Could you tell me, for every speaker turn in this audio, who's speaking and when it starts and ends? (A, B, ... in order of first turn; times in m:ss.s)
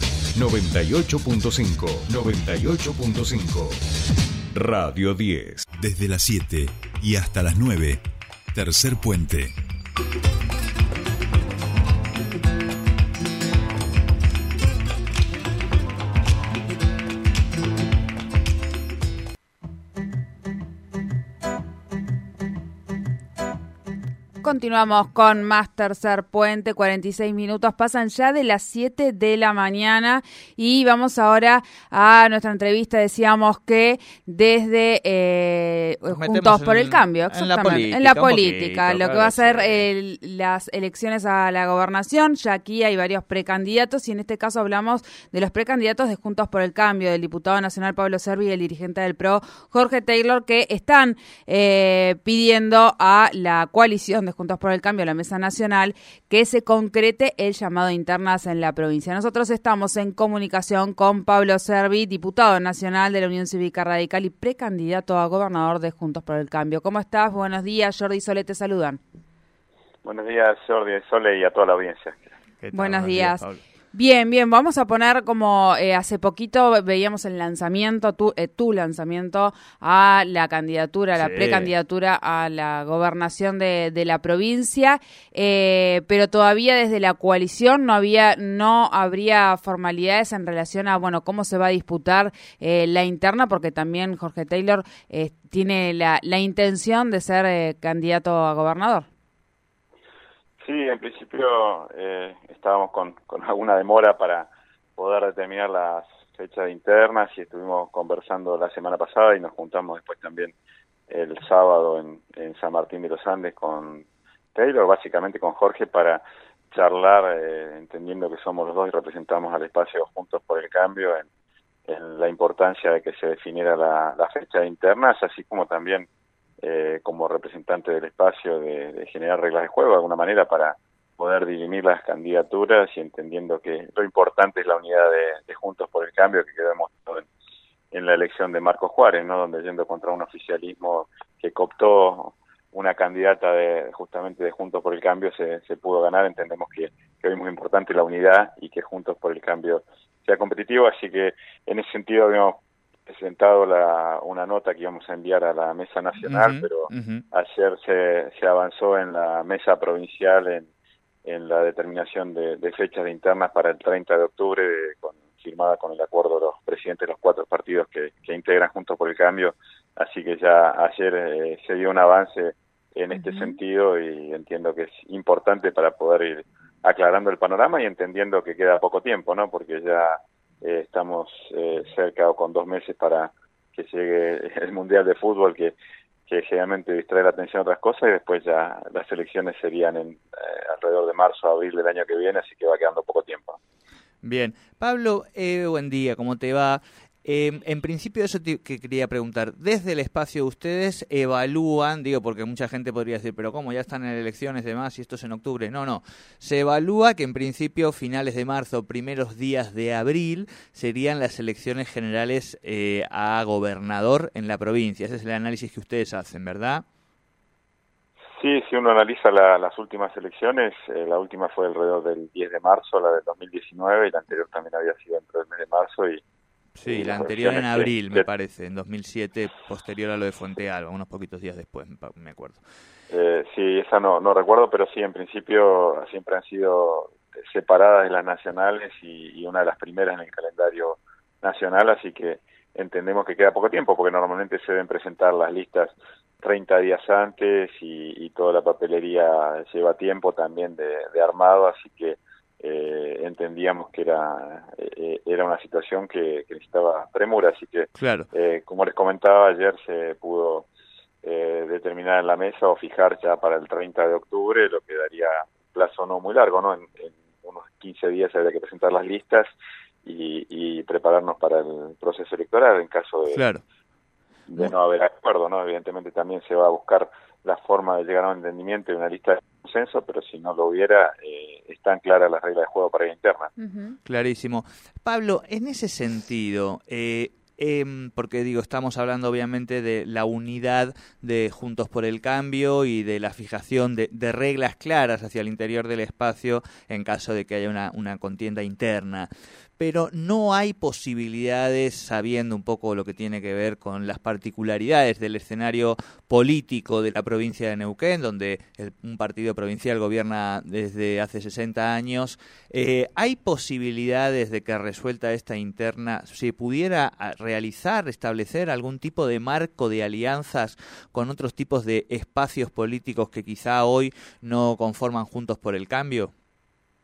0:00.3-0:03.8 A
0:04.5-0:05.6 A
0:05.8-0:08.0 B
0:08.5-0:09.5 B
0:24.4-1:09.0 C
0:36.1-0:39.8 D
1:10.0-1:12.2 E
1:12.6-1:13.6 D
1:12.7-1:39.1 C
1:21.2-1:21.7 D
1:40.6-1:50.6 E
1:51.1-2:01.3 E
2:01.9-2:06.1 E
2:06.6-2:17.3 E
2:17.9-2:40.7 E
2:36.2-2:37.2 D
2:41.2-3:05.8 E
2:53.1-2:53.6 C
3:06.3-3:13.6 E
3:14.2-3:36.8 D
3:38.4-3:46.2 E
3:46.8-3:52.6 D
3:46.8-3:48.2 E
3:53.1-4:20.7 E
4:18.0-4:18.3 D
4:21.2-4:29.5 E
4:30.0-4:33.4 E
4:33.3-4:33.6 D
4:34.5-4:43.5 E
4:43.6-4:44.0 C
4:44.0-5:26.3 D